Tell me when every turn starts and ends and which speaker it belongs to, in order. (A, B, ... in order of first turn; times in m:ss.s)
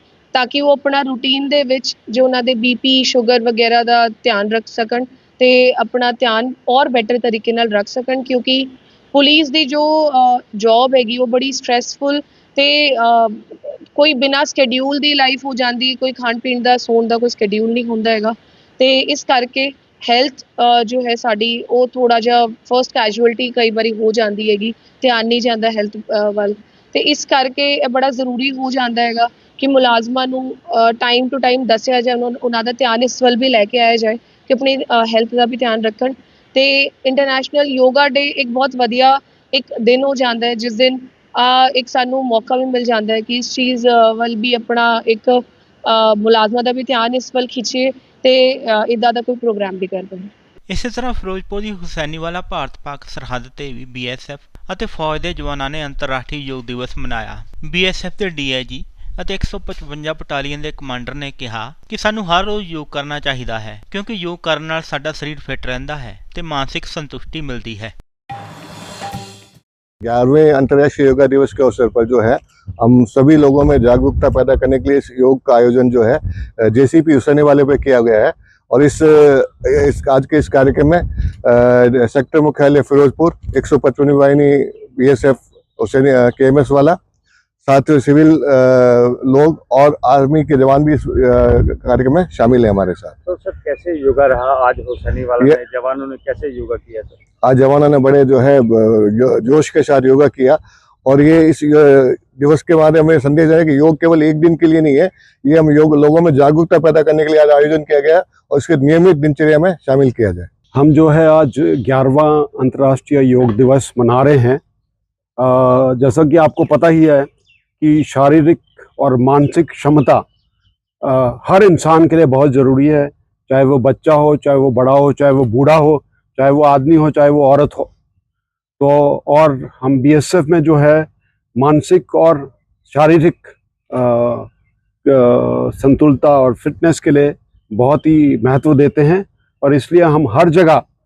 0:00.3-0:50.3 A
0:50.7-1:07.9 B
1:10.0-1:27.0 C
1:27.6-1:33.2 C
1:33.2-1:37.2 D
1:37.4-1:50.5 C
1:50.7-1:54.6 E
1:55.4-1:57.3 E
1:57.8-2:00.2 E
2:01.0-2:07.9 E
2:08.8-2:14.5 E
2:15.0-2:20.8 E